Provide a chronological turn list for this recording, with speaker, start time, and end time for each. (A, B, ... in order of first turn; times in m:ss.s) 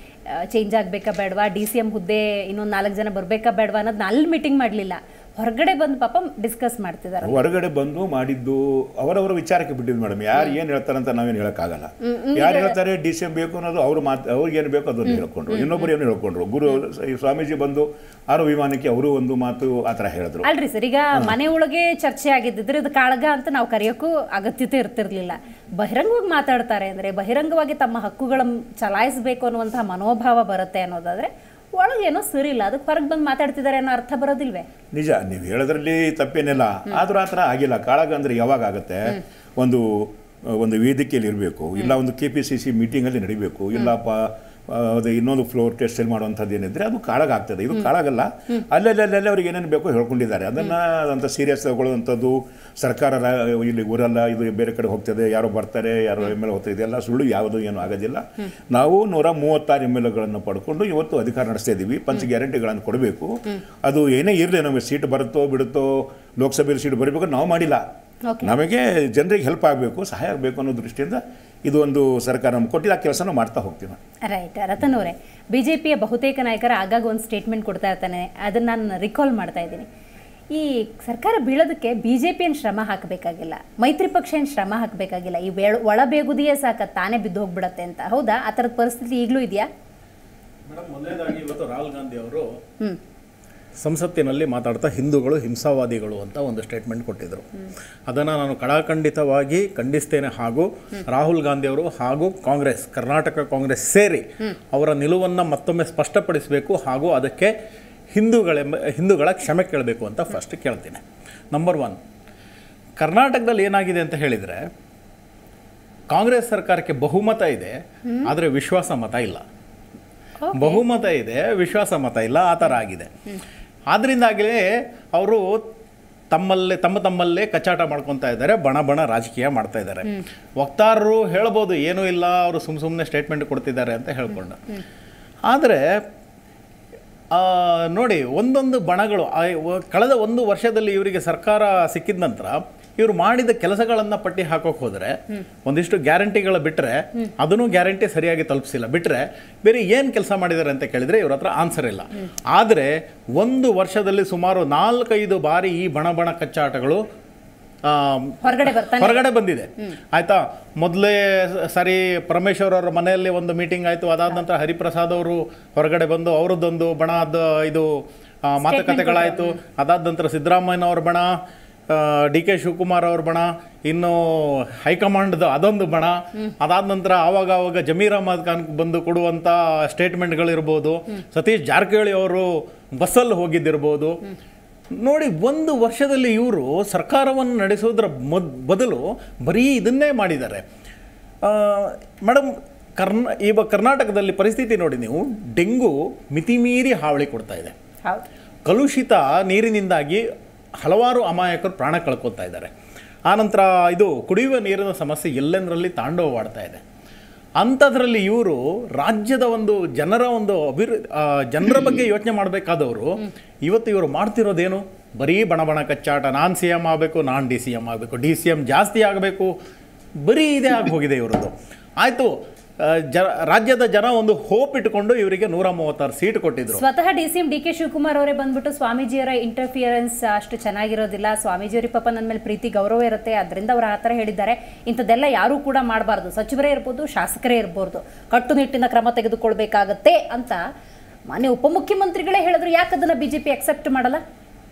0:00.4-0:07.4 A
0:07.2-0:20.5 B
0:12.0-0:12.8 A
0:15.1-0:15.9 A
0:20.4-0:34.7 A
0:34.9-1:07.8 B
1:08.4-1:14.0 B
1:14.3-1:19.9 A
1:20.5-1:29.7 A
1:30.7-1:32.4 C
1:33.8-1:37.5 C
1:38.1-1:47.5 C
1:48.1-1:51.0 C
1:51.5-1:52.0 C
1:53.0-1:54.7 C
1:56.1-1:59.4 C
2:00.4-2:00.8 A
2:00.6-2:03.1 C
2:03.9-2:05.6 C
2:06.3-2:14.6 C
2:15.5-2:15.8 C
2:17.3-2:37.0 C
2:37.8-2:51.3 C
2:38.4-2:39.2 A
2:48.6-2:49.5 A
2:51.9-3:04.2 C
3:05.0-3:10.6 C
3:11.4-3:17.7 C
3:18.6-3:20.2 C
3:20.8-3:22.7 C
3:23.3-3:26.8 C
3:27.6-3:39.5 C
3:40.2-3:46.8 C
3:46.7-4:00.6 A
4:01.3-4:04.2 A